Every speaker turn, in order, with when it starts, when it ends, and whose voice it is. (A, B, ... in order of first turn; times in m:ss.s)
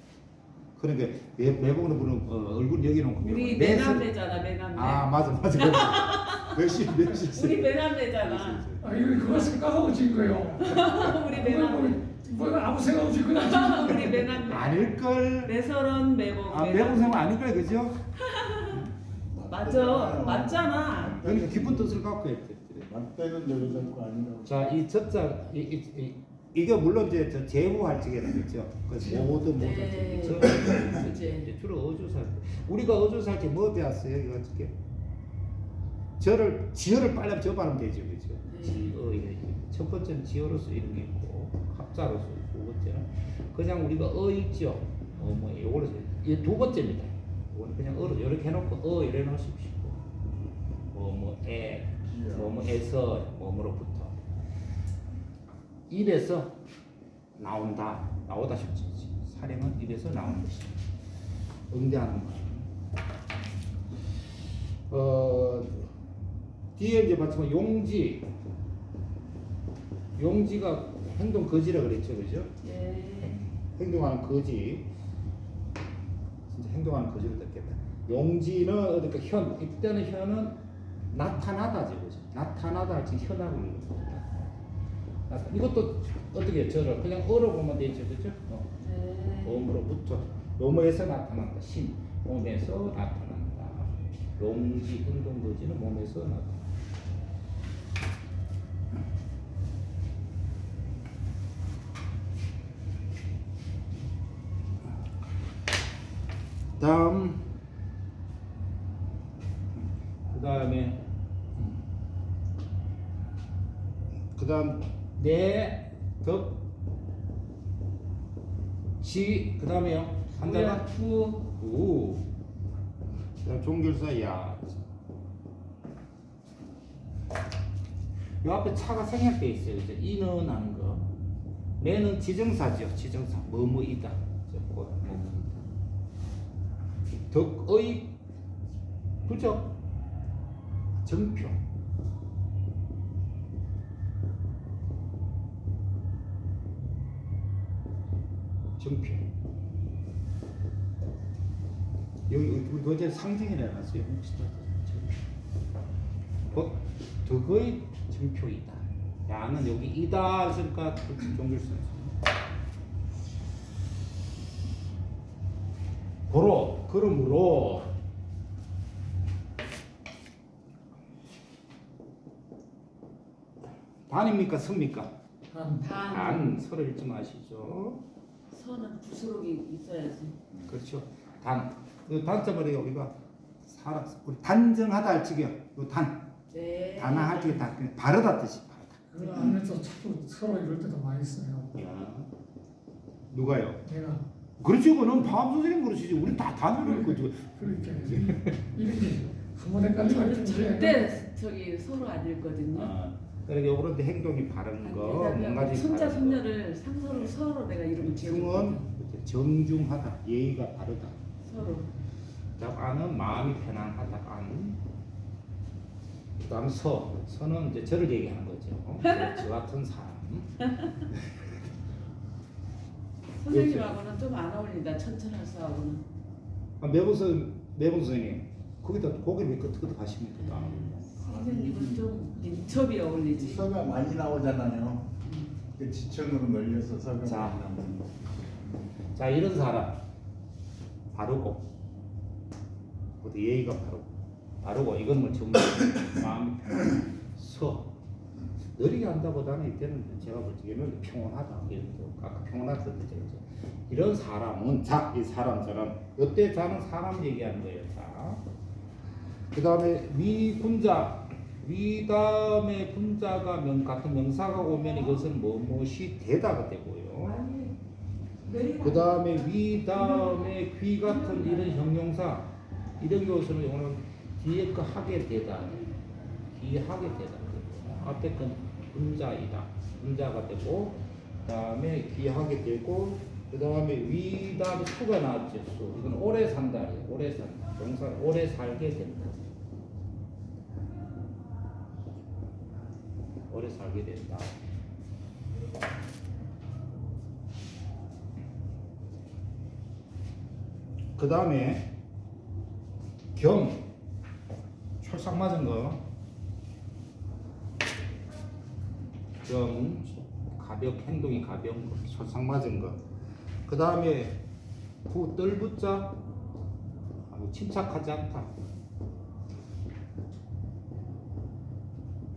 0:00.8-0:04.1 A
0:03.2-0:09.5 B
0:04.7-0:08.8 A
0:08.8-0:14.5 C
0:10.6-0:12.0 B
0:13.4-0:17.2 B
0:14.5-0:15.5 A
0:16.5-0:18.1 A
0:18.2-0:18.8 B
0:19.3-0:22.0 D
0:19.5-0:21.2 B
0:21.0-0:22.9 A
0:22.8-0:24.6 D
0:23.5-0:23.9 B
0:24.4-0:34.8 A
0:29.0-0:31.5 B
0:36.2-0:50.0 A
0:38.5-0:38.9 B
0:50.9-0:54.2 A
0:52.1-0:52.5 D
0:55.9-0:56.6 A
0:57.3-1:00.8 A
1:01.7-1:02.7 A
1:04.9-1:05.9 A
1:06.8-1:08.3 A
1:10.1-1:12.5 A
1:12.6-1:13.4 B
1:13.2-1:14.9 A
1:16.5-1:24.6 A
1:25.3-1:28.7 A
1:28.8-1:29.7 B
1:29.4-1:36.7 A
1:46.8-1:47.5 A
1:49.7-1:51.8 A
1:54.3-1:56.7 A
1:59.0-2:00.8 A
2:00.4-2:01.5 B
2:01.6-2:02.3 A
2:03.4-2:04.8 A
2:08.4-2:11.1 A
2:11.8-2:15.7 A
2:17.3-2:18.2 A
2:19.2-2:19.8 A
2:21.0-2:21.6 A
2:28.8-2:29.2 A
2:32.3-2:35.3 A
2:36.5-2:42.2 A
2:46.3-2:47.9 A
2:54.1-2:55.1 A
2:55.5-2:55.9 C
2:55.8-2:56.5 B
2:56.0-2:58.0 A
2:58.5-3:00.4 B
3:00.6-3:06.3 A
3:06.5-3:07.7 B
3:07.0-3:09.6 A
3:09.1-3:11.7 C
3:11.7-3:12.3 A
3:13.3-3:13.8 A
3:13.8-3:14.2 C
3:14.6-3:18.8 A
3:16.8-3:21.1 C
3:20.0-3:22.9 B
3:22.7-3:26.5 A
3:24.8-3:28.8 B
3:28.0-3:31.2 A
3:31.4-3:31.9 B
3:32.6-3:34.8 A
3:36.4-3:40.6 A
3:39.0-3:39.3 B
3:43.4-3:46.0 B
3:43.5-3:44.0 A
3:46.8-3:51.1 A
3:50.4-3:53.7 B
3:51.2-3:52.0 D
3:53.3-3:55.1 D
3:55.2-3:55.5 B
3:55.7-3:58.2 D
3:57.2-3:57.6 A
3:59.1-4:00.0 A
4:01.1-4:01.7 A
4:03.2-4:08.0 A
4:08.7-4:18.4 A
4:19.5-4:27.4 A
4:27.2-4:27.8 B
4:28.4-4:31.8 B
4:28.8-4:35.9 A
4:36.5-4:49.4 A
4:53.5-4:54.6 A
5:01.2-5:01.9 A
5:03.3-5:03.9 A
5:05.0-5:06.0 A
5:09.4-5:13.0 A
5:13.6-5:14.4 A
5:15.0-5:16.2 A
5:17.3-5:18.5 A